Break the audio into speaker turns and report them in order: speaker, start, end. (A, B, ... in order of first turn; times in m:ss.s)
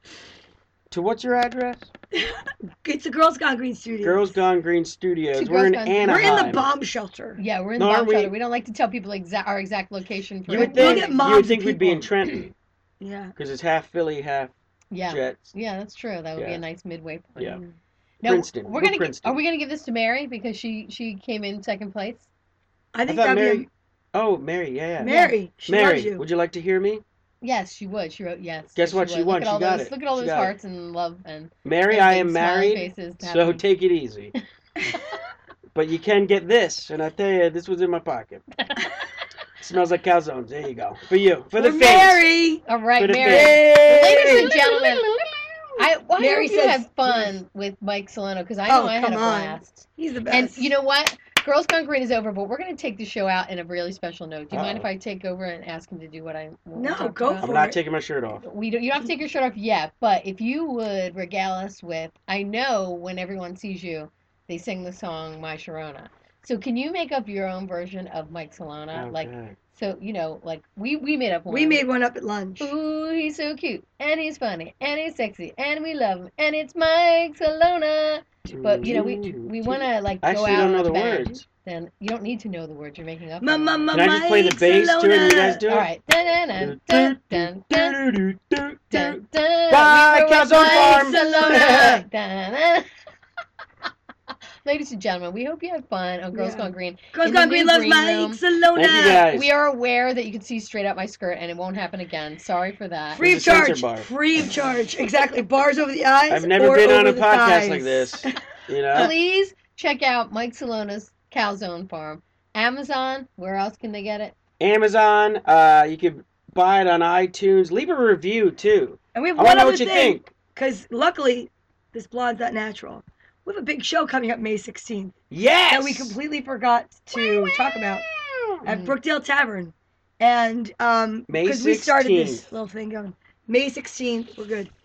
0:00.9-0:01.9 A
0:02.1-0:04.4 B
0:04.0-0:06.7 A
0:05.4-0:06.6 C
0:06.0-0:07.4 B
0:07.4-0:11.2 C
0:07.8-0:08.3 A
0:10.5-0:12.1 B
0:10.5-0:12.5 A
0:13.0-0:13.4 B
0:13.4-0:14.5 A
0:14.9-0:17.6 C
0:15.1-0:15.5 A
0:16.4-0:16.6 A
0:18.2-0:22.3 C
0:18.2-0:19.4 A
0:22.9-0:23.7 B
0:23.1-0:27.0 A
0:25.0-0:26.2 B
0:25.0-0:25.4 C
0:27.4-0:33.6 C
0:28.8-0:30.5 A
0:31.6-0:34.3 A
0:34.9-0:35.2 C
0:35.7-0:38.4 A
0:38.6-0:39.0 C
0:39.6-0:42.3 A
0:41.6-0:42.6 B
0:42.7-0:45.1 C
0:43.0-0:44.6 A
0:43.2-0:47.3 B
0:45.8-0:57.6 C
0:48.7-0:50.7 B
0:54.5-0:54.9 A
0:56.8-0:57.8 B
0:57.4-0:58.4 A
0:58.4-1:11.8 C
1:08.9-1:09.6 A
1:11.5-1:12.7 B
1:12.6-1:24.0 C
1:18.5-1:21.4 A
1:18.8-1:19.2 B
1:23.4-1:25.6 B
1:23.9-1:25.9 A
1:25.7-1:28.0 C
1:26.6-1:32.0 A
1:28.9-1:32.9 C
1:30.5-1:32.0 B
1:34.6-1:38.4 C
1:36.3-1:39.3 B
1:38.7-1:39.5 A
1:39.1-1:43.2 C
1:43.1-1:48.3 B
1:43.2-1:44.1 A
1:46.3-1:49.1 A
1:48.9-1:54.4 C
1:54.6-2:00.3 A
1:59.1-2:05.2 B
2:05.3-2:06.2 A
2:05.7-2:08.1 B
2:08.3-2:08.6 A
2:08.6-2:14.7 B
2:08.7-2:09.0 C
2:11.3-2:12.5 A